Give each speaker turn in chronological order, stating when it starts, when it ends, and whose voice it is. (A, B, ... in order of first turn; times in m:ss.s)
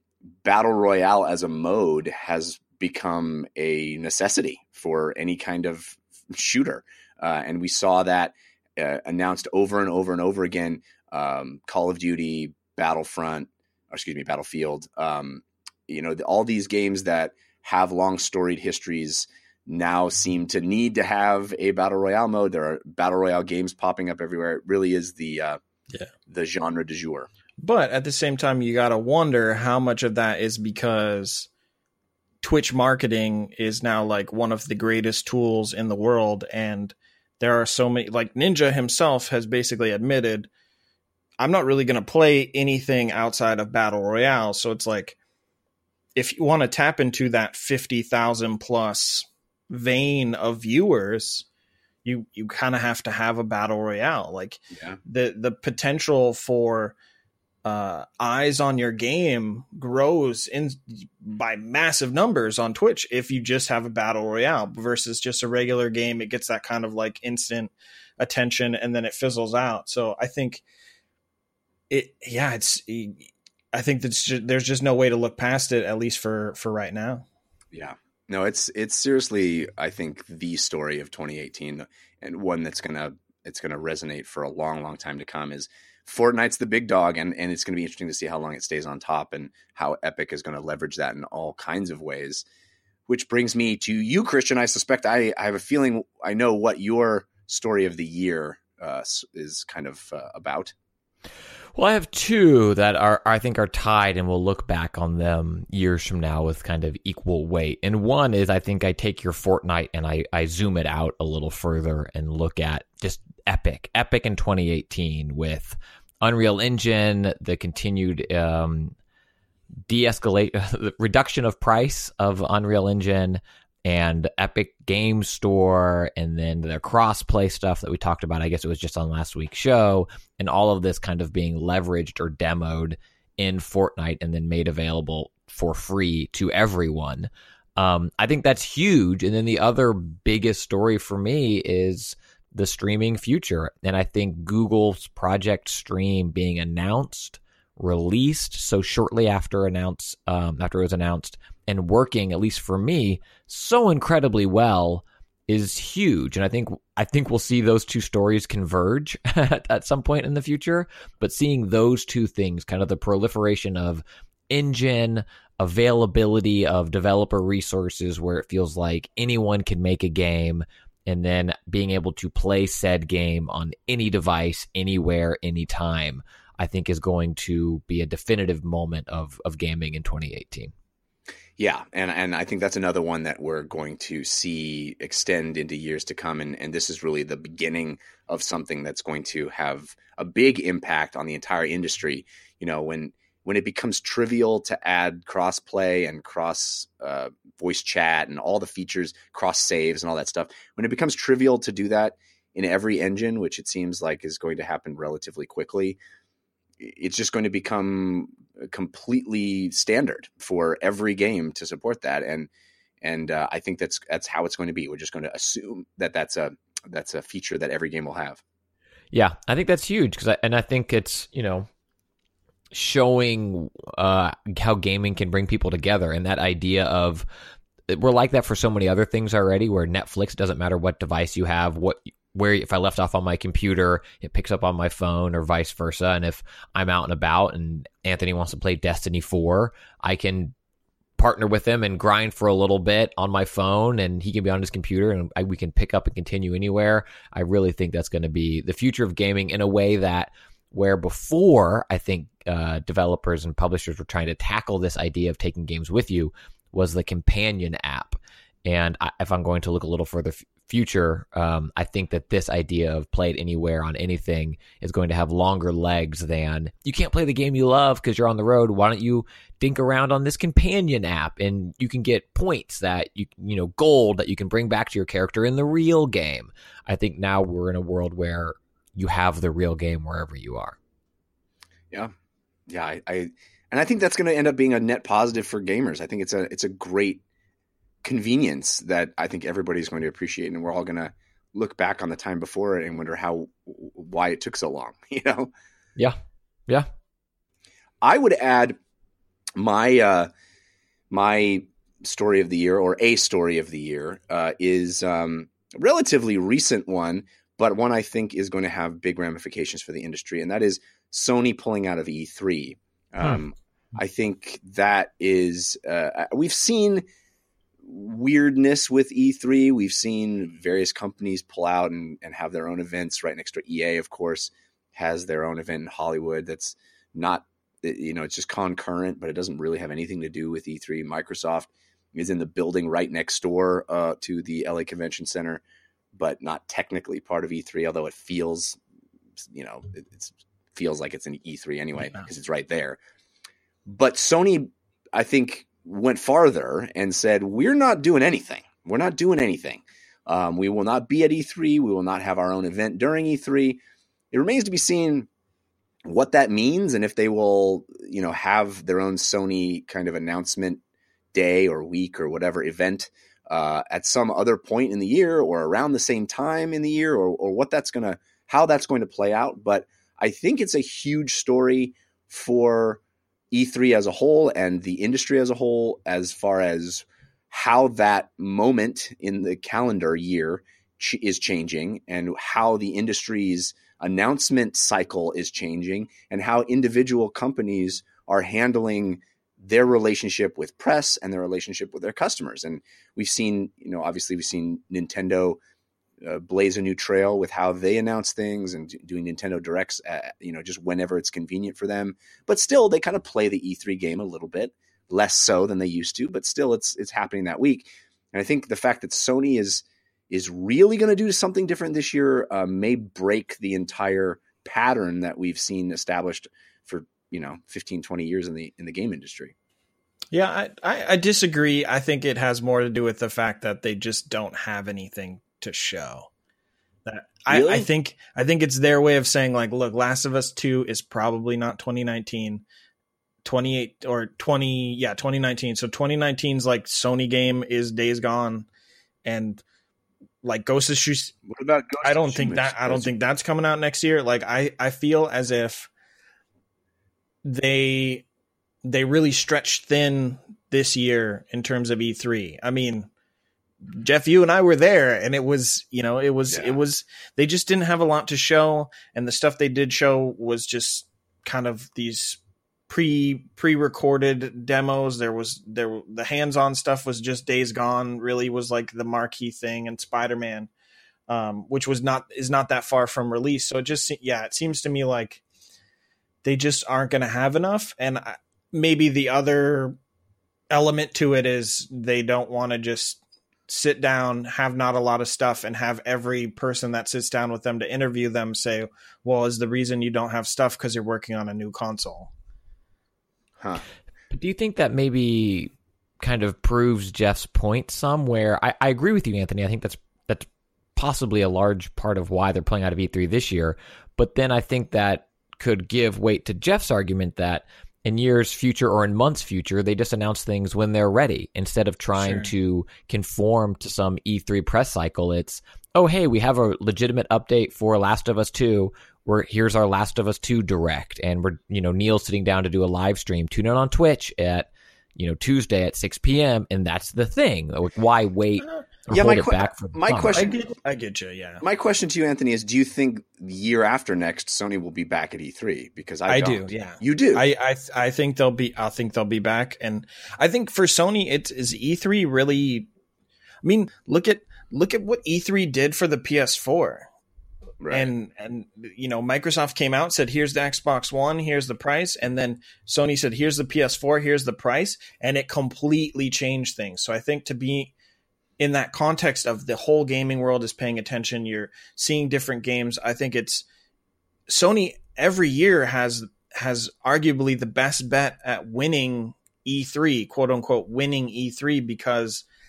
0:00.4-0:25.6 A
0:26.3-0:27.3 A
0:27.6-0:31.5 B
0:32.4-0:40.5 B
0:41.4-0:45.2 B
0:46.2-0:51.4 B
0:52.0-0:57.0 B
0:54.7-0:55.0 A
0:57.6-1:10.6 B
1:11.9-1:17.2 B
1:17.7-1:32.4 A
1:33.1-1:40.7 A
1:41.8-1:59.0 C
1:59.9-3:00.7 C
3:01.6-3:26.0 A
3:26.8-3:32.5 A
3:33.0-3:38.4 A
3:39.1-3:41.7 C
3:42.7-3:47.3 C
3:47.9-4:00.5 C
4:01.2-4:40.8 C
4:42.7-4:47.2 A
4:48.0-4:55.5 A
4:58.0-4:58.8 A
4:59.6-5:00.3 A
5:01.1-5:17.0 A
5:17.8-5:35.6 A
5:36.1-5:38.8 A
5:39.4-5:43.0 A
5:43.9-5:53.8 A
5:54.3-5:55.3 A
5:56.0-6:00.8 A
6:01.3-6:13.0 A
6:13.5-6:35.6 A
6:36.2-6:59.5 A
7:00.3-7:06.3 B
7:07.1-7:12.6 B
7:07.5-7:07.9 A
7:13.4-7:18.7 B
7:19.2-7:19.6 B
7:20.4-7:21.4 B
7:21.5-7:23.1 A
7:22.0-7:25.9 B
7:27.4-7:28.2 B
7:28.8-7:33.1 B
7:33.8-7:50.7 B
7:36.5-7:36.8 A
7:51.3-7:55.4 B
7:56.4-8:00.0 B
8:00.7-8:12.3 B
8:13.6-8:13.8 A
8:14.3-8:50.4 C
8:32.2-8:32.5 B
8:49.1-8:50.6 A
8:50.3-8:51.6 B
8:51.6-8:57.4 A
8:56.3-9:02.9 B
9:03.6-9:07.1 B
9:07.8-9:08.1 A
9:07.9-9:17.9 B
9:18.6-9:23.7 B
9:24.5-9:32.4 B